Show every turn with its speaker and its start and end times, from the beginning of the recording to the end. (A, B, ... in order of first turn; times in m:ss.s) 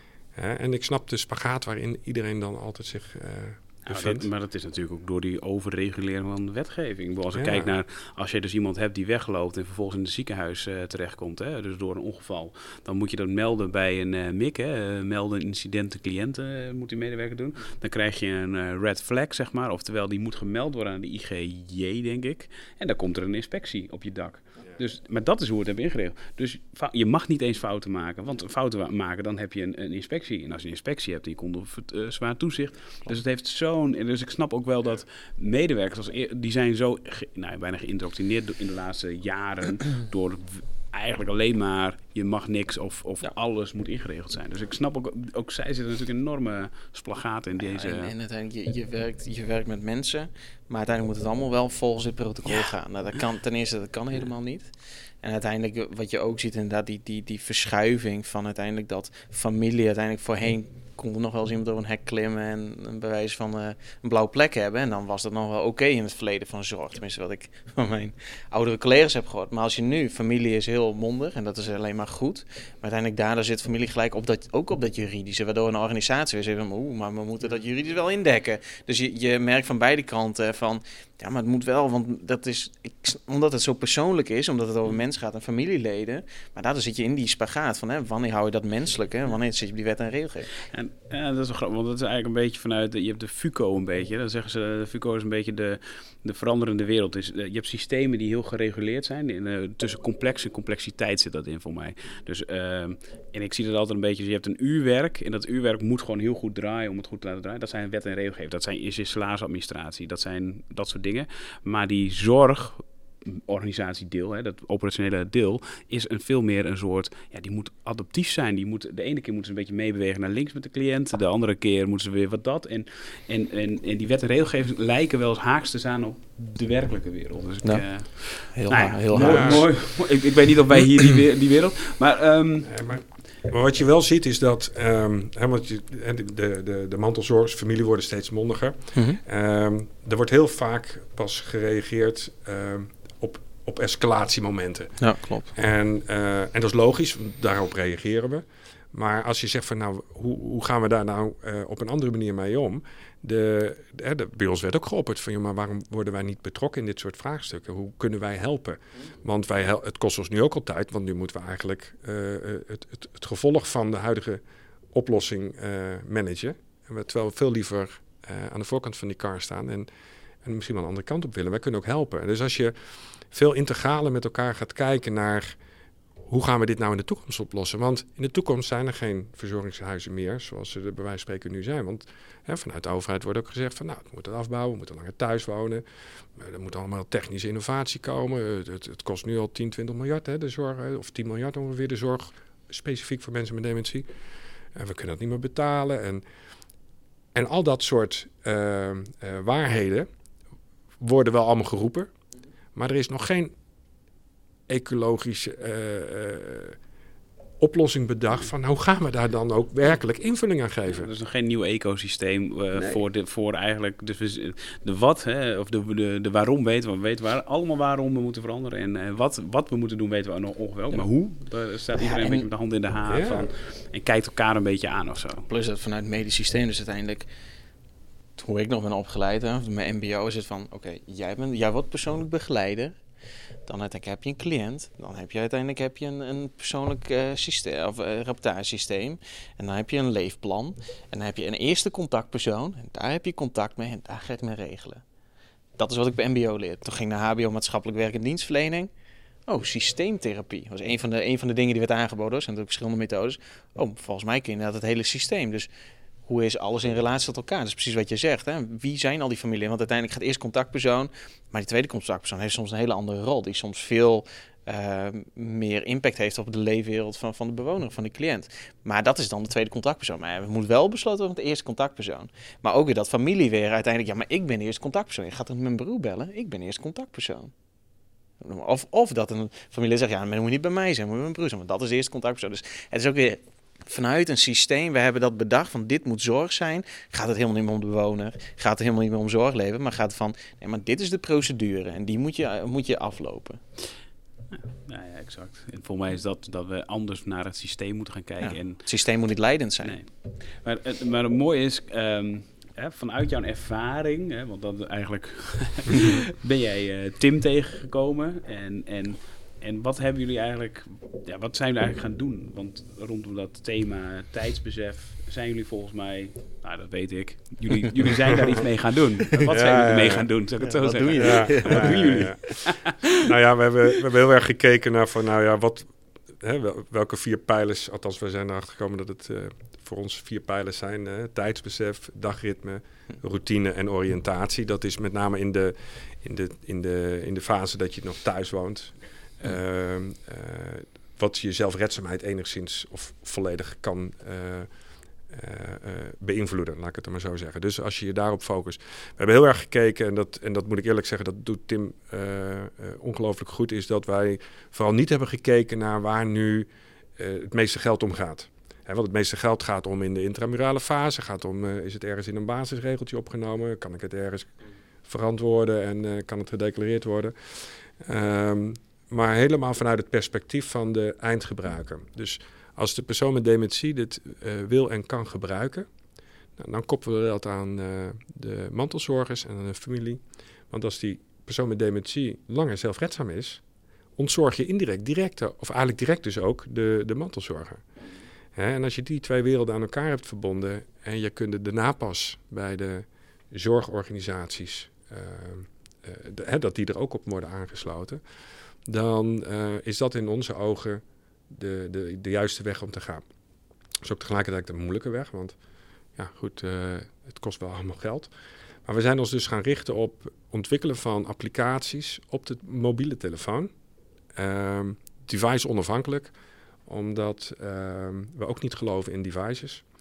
0:00.4-0:04.3 A
0:03.9-0:48.1 B
0:07.3-0:07.7 A
0:47.6-0:54.7 C
0:55.2-1:30.5 C
1:30.7-2:12.7 B
2:07.6-2:09.6 C
2:09.2-2:09.6 A
2:12.7-2:49.9 A
2:18.9-2:19.2 C
2:25.0-2:25.5 C
2:50.4-2:55.6 A
2:56.3-3:14.1 A
3:14.7-3:16.2 A
3:17.3-3:20.1 A
3:21.0-3:22.1 A
3:22.8-3:23.5 A
3:24.7-3:26.8 A
3:27.6-3:31.1 A
3:30.9-3:45.5 B
3:32.7-3:33.0 A
3:42.0-3:42.5 C
3:43.1-3:43.5 A
3:45.5-3:47.3 C
3:48.4-3:53.0 C
3:53.7-4:05.0 C
4:05.8-4:08.9 C
4:09.5-4:15.7 C
4:16.3-4:37.5 C
4:38.4-4:53.6 C
4:54.5-4:58.8 B
4:58.4-5:00.0 C
4:59.8-5:23.3 B
5:19.5-5:20.3 A
5:20.6-5:22.2 C
5:21.1-5:44.7 A
5:45.3-6:04.5 A
6:05.0-6:15.9 A
6:16.6-6:23.6 A
6:24.2-6:27.9 A
6:28.6-6:38.2 A
6:38.8-6:43.2 A
6:44.0-6:45.6 A
6:46.2-6:48.3 A
6:48.8-6:53.7 A
6:54.3-6:56.3 A
6:56.9-6:59.8 A